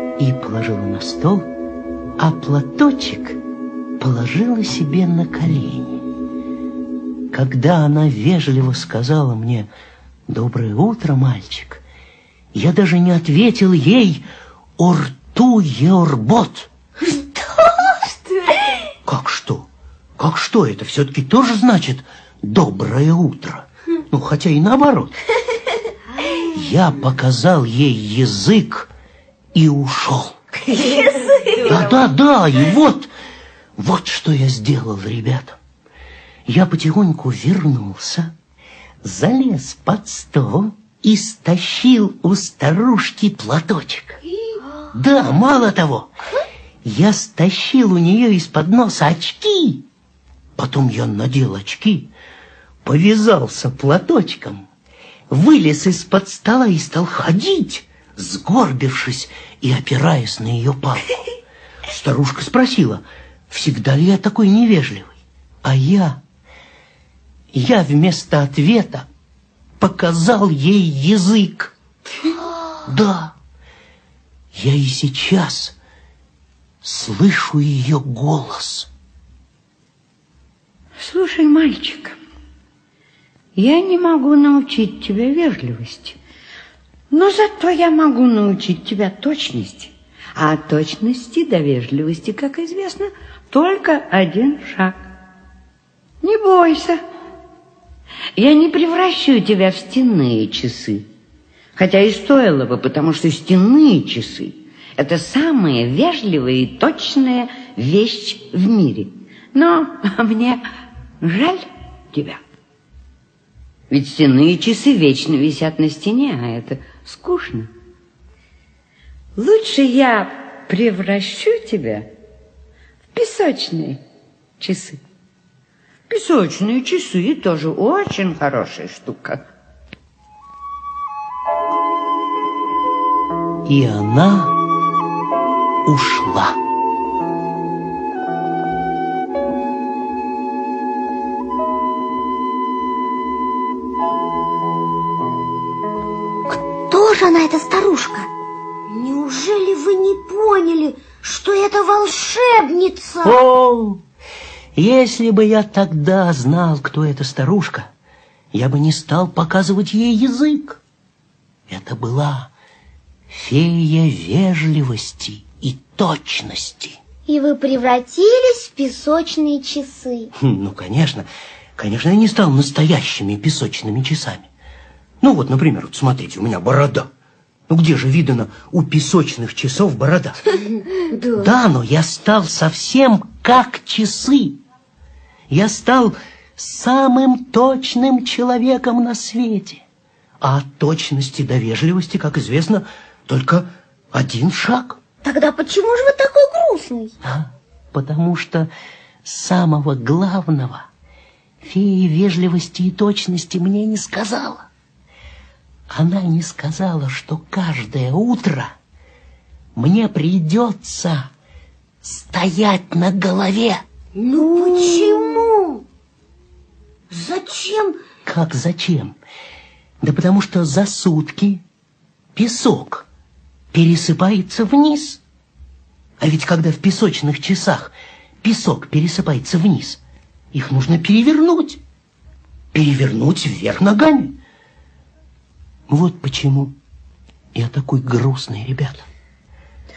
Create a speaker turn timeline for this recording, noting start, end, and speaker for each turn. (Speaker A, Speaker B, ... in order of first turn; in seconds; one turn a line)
Speaker A: 0.2-1.5
Speaker A: 2.2-3.4
Speaker A: 4.0-6.0
Speaker A: 7.3-9.7
Speaker A: 10.3-11.8
Speaker A: 12.5-14.2
Speaker A: 14.8-16.7
Speaker B: 17.0-18.6
Speaker A: 19.1-25.1
Speaker B: 26.2-26.5
Speaker A: 26.5-28.9
Speaker A: 29.5-30.4
Speaker A: 31.6-33.1
Speaker A: 33.8-35.6
Speaker A: 36.5-38.3
Speaker A: 39.0-44.2
Speaker A: 44.9-46.1
Speaker A: 46.8-49.9
Speaker A: 50.6-52.1
Speaker A: 52.8-54.6
Speaker A: 55.3-61.2
Speaker A: 61.9-66.2
Speaker A: 67.5-69.1
Speaker A: 69.8-71.7
Speaker A: 72.9-73.3
Speaker A: 74.5-75.8
Speaker A: 76.8-78.9
Speaker C: 81.0-82.2
Speaker C: 83.6-86.2
Speaker C: 87.1-95.0
Speaker C: 96.2-97.0
Speaker C: 98.4-101.0
Speaker C: 101.8-110.6
Speaker C: 111.2-112.4
Speaker C: 113.9-117.7
Speaker C: 119.4-122.1
Speaker C: 123.1-124.0
Speaker C: 124.6-125.0
Speaker C: 126.1-129.4
Speaker A: 133.7-134.6
Speaker A: 135.9-136.6
Speaker D: 146.5-148.3
Speaker B: 148.9-153.4
Speaker A: 153.2-154.0
Speaker A: 154.8-157.9
Speaker A: 158.5-160.8
Speaker A: 161.7-162.5
Speaker A: 163.3-167.0
Speaker D: 167.3-170.3
Speaker A: 170.3-174.5
Speaker A: 175.2-177.1
Speaker A: 177.7-180.4
Speaker B: 180.9-181.5
Speaker A: 181.4-184.6
Speaker A: 185.5-189.8
Speaker A: 190.4-195.0
Speaker D: 195.2-197.2
Speaker A: 197.2-198.7
Speaker A: 199.2-200.9
Speaker A: 201.6-204.7
Speaker A: 205.9-208.8
Speaker A: 209.8-211.3
Speaker A: 212.0-213.8
Speaker B: 214.2-215.8
Speaker D: 214.3-215.3
Speaker B: 217.1-218.0
Speaker A: 218.2-219.2
Speaker A: 220.0-221.6
Speaker A: 222.3-223.1
Speaker A: 223.7-225.2
Speaker A: 226.2-230.0
Speaker A: 230.5-231.8
Speaker A: 232.7-234.4
Speaker A: 235.9-236.8
Speaker A: 237.5-239.0